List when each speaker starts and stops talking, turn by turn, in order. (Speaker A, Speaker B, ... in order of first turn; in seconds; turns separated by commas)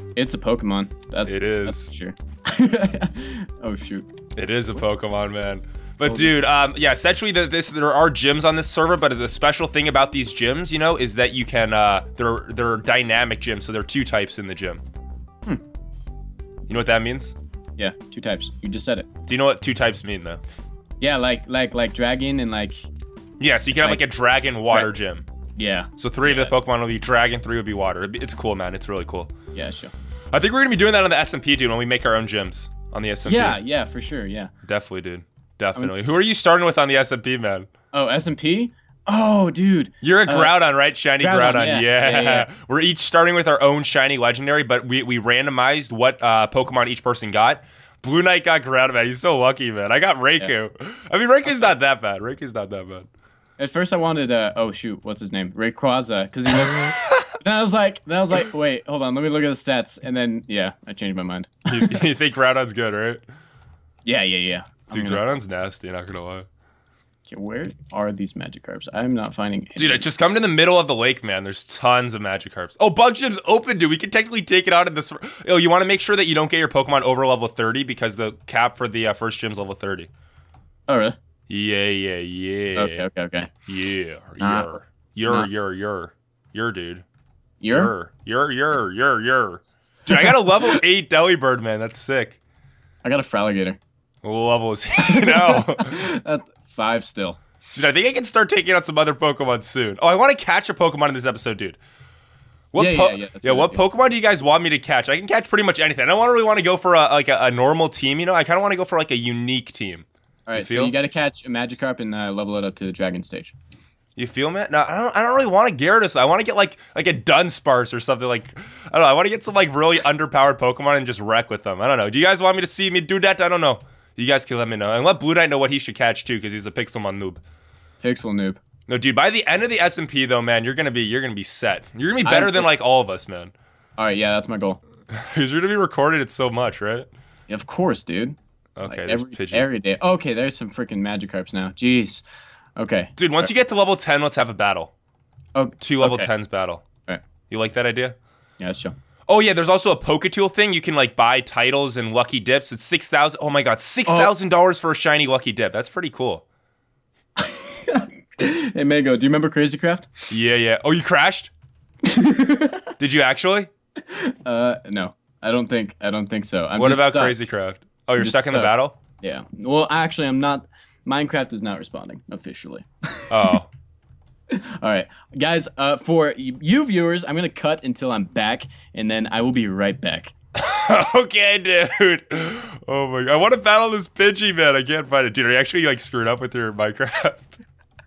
Speaker A: 0.1-4.1, Speaker B: 1.3-1.9, Speaker B: 4.3-14.8, Speaker B: 16.7-17.3, Speaker A: 17.8-19.1, Speaker B: 19.2-20.4, Speaker A: 21.0-22.9, Speaker B: 23.4-25.2, Speaker A: 25.6-26.5, Speaker B: 26.0-29.3, Speaker A: 29.5-29.9, Speaker B: 30.3-33.6, Speaker A: 33.2-34.5, Speaker B: 34.6-37.7, Speaker A: 35.7-36.1, Speaker A: 37.9-40.5, Speaker B: 40.0-53.1, Speaker A: 41.2-42.5, Speaker A: 53.6-62.0, Speaker B: 56.8-57.3, Speaker B: 61.7-63.2, Speaker A: 64.0-65.2, Speaker B: 64.9-66.5, Speaker A: 67.3-70.1, Speaker B: 69.8-80.1, Speaker A: 80.9-81.2, Speaker B: 81.5-83.1, Speaker A: 82.7-83.5, Speaker B: 83.7-87.0, Speaker A: 84.4-84.7, Speaker A: 87.6-87.9, Speaker B: 87.7-92.4, Speaker A: 90.1-90.8, Speaker A: 93.0-93.8, Speaker B: 94.2-96.1, Speaker A: 95.0-97.4, Speaker B: 97.7-101.8, Speaker B: 102.7-110.9, Speaker A: 102.8-103.8, Speaker A: 110.5-113.5, Speaker B: 114.2-127.4, Speaker A: 128.0-128.6, Speaker B: 128.9-133.5, Speaker A: 132.2-132.7, Speaker A: 134.0-134.8, Speaker B: 135.1-137.1, Speaker A: 137.5-142.2, Speaker B: 138.8-139.7, Speaker A: 142.8-143.5, Speaker B: 143.2-144.9, Speaker A: 145.5-146.3, Speaker B: 145.8-146.8, Speaker B: 147.5-148.2, Speaker A: 148.6-149.0, Speaker B: 149.3-156.4, Speaker A: 154.1-154.3, Speaker A: 157.3-160.1, Speaker B: 160.3-161.5, Speaker A: 162.0-162.9, Speaker B: 163.0-163.7, Speaker A: 164.0-167.3, Speaker B: 166.7-168.9, Speaker A: 168.2-173.4, Speaker B: 173.3-173.7, Speaker A: 174.5-180.3, Speaker B: 180.5-187.6